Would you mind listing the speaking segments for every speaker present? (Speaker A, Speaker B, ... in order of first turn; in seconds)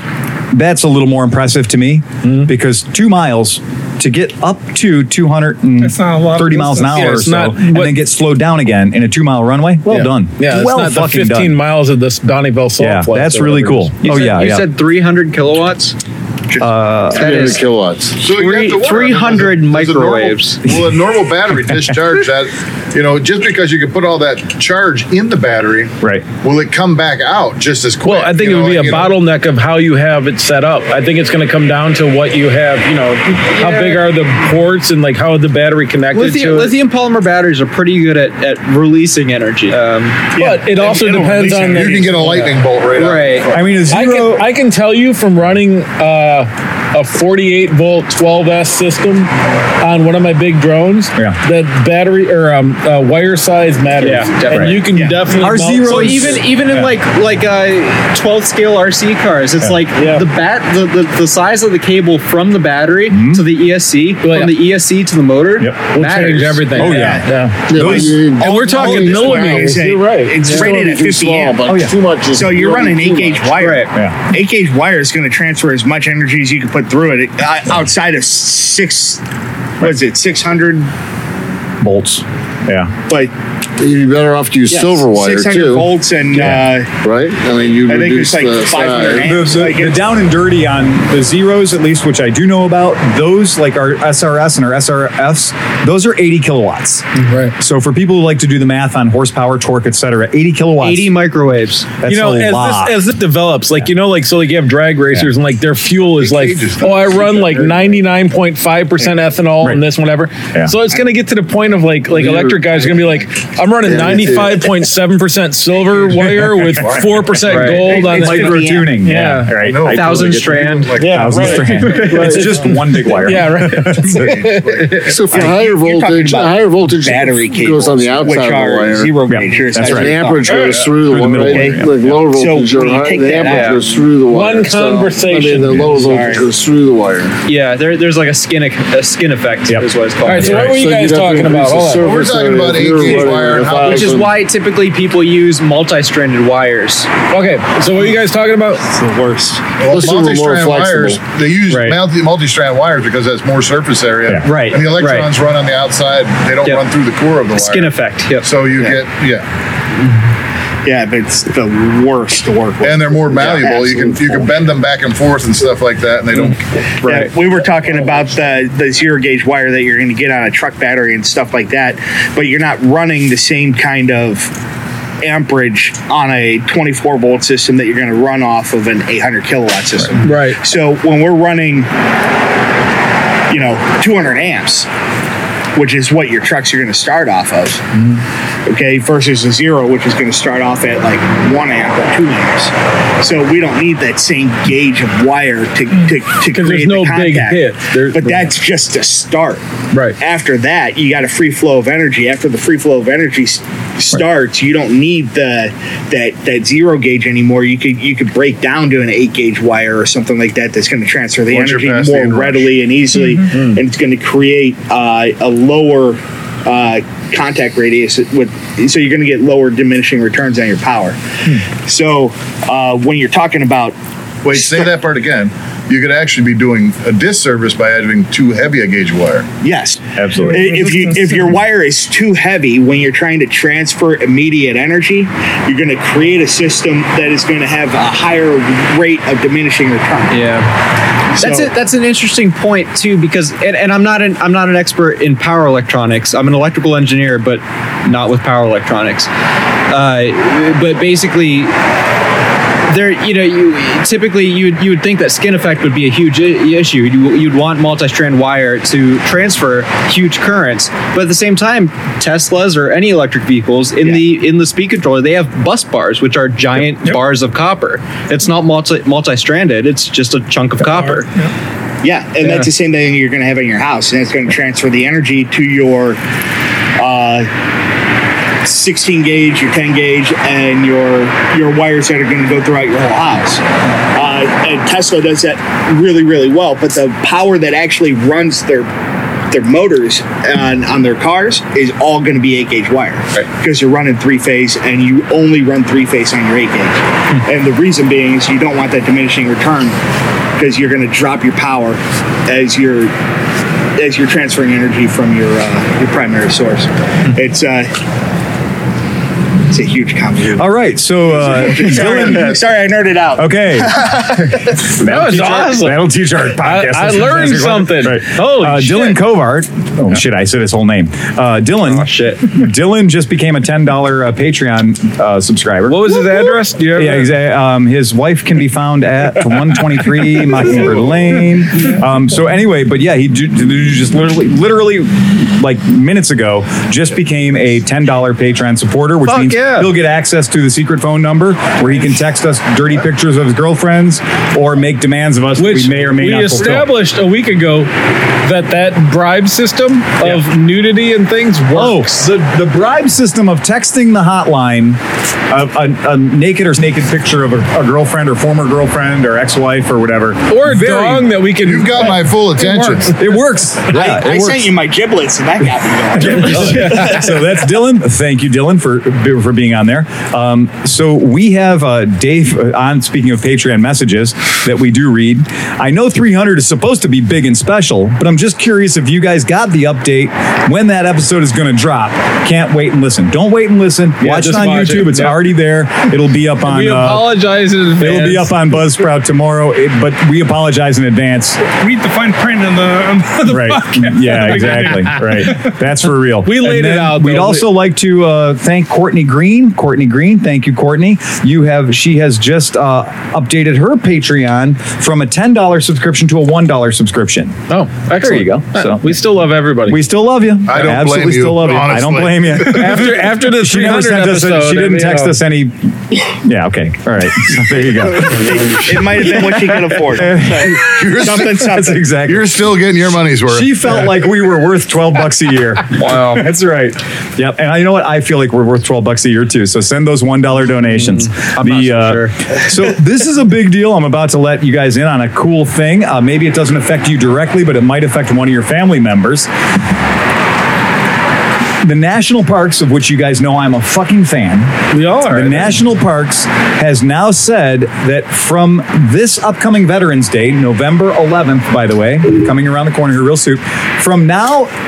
Speaker A: 0.5-11.6, 12.8-14.7, 16.6-17.3, 43.5-44.5, 55.4-56.9, 63.1-63.5, 65.6-65.9, 66.8-69.3, 71.7-71.9, 81.8-82.9, 86.3-86.6, 89.2-97.1, 97.6-101.1, 102.0-103.0, 118.1-120.5, 121.0-124.4, 129.3-130.2, 131.0-132.2, 139.7-140.8, 230.2-230.9, 310.5-312.6, 313.4-314.1, 314.9-346.9, 351.7-361.4, 363.2-364.7, 366.1-387.4, 388.0-391.6, 393.4-407.6, 408.1-409.3, 409.8-418.5, 420.1-420.8, 421.6-422.6, 423.5-439.5, 441.8-454.7
Speaker B: 2.2-2.5, 6.9-8.0, 9.9-13.9, 28.0-36.8, 40.4-42.5, 43.9-56.4, 60.0-60.3, 64.2-64.5, 65.9-70.7, 97.2-97.5, 102.1-119.5, 121.0-125.1, 130.5-130.7, 134.3-136.4, 140.2-142.1, 147.3-148.9, 180.2-180.6, 196.5-198.5, 199.9-200.2, 213.5-213.8, 315.0-316.0, 316.6-319.2, 325.9-327.3, 345.6-347.9, 348.4-352.1, 360.5-363.1, 366.4-367.2, 384.2-385.4, 386.6-388.6, 396.4-397.7, 407.7-410.0, 412.6-415.4, 444.9-445.7
Speaker C: 5.8-7.0, 213.2-213.5, 270.9-271.5, 391.6-395.7
Speaker D: 14.0-16.0, 17.2-17.6, 18.2-20.6, 33.5-34.0, 36.1-40.3, 42.9-43.5, 54.0-54.9, 55.8-66.9, 73.6-73.9, 100.8-102.0, 117.4-118.1, 119.8-121.0, 133.4-133.8, 137.5-140.7, 143.8-147.1, 149.0-149.5, 151.7-152.0, 154.4-155.3, 157.5-159.0, 240.3-240.7, 241.4-249.3, 249.9-251.7, 252.9-271.3, 321.9-322.5, 339.2-339.9, 426.0-426.4, 431.1-432.3
Speaker E: 17.1-18.2, 67.7-73.5, 83.8-85.9, 87.0-89.3, 113.9-114.6, 125.0-129.1, 129.8-137.4, 140.5-144.3, 149.9-151.2
Speaker F: 18.2-29.2, 40.9-43.6, 106.0-108.1, 115.7-117.4, 119.6-121.9, 123.9-125.1, 142.0-144.2, 149.8-159.5, 162.8-166.8, 211.5-212.7, 224.4-229.5, 361.6-363.2, 410.7-412.9, 420.7-424.1
Speaker G: 40.4-42.3, 66.8-67.3, 67.8-71.6, 72.3-79.2, 79.8-80.9, 84.7-86.9, 87.9-90.0, 117.7-119.0, 125.3-133.8, 135.8-136.5, 160.8-164.5, 167.0-174.5, 175.2-181.9, 183.5-184.9, 185.8-187.8, 188.7-199.6, 200.2-223.9, 224.5-224.9, 229.6-240.5, 241.4-241.7, 272.0-276.2, 277.0-277.5, 278.6-283.6, 284.1-288.9, 289.5-300.0, 300.6-303.1, 304.0-307.9, 309.7-310.7, 311.3-314.8, 363.9-367.2, 418.3-422.0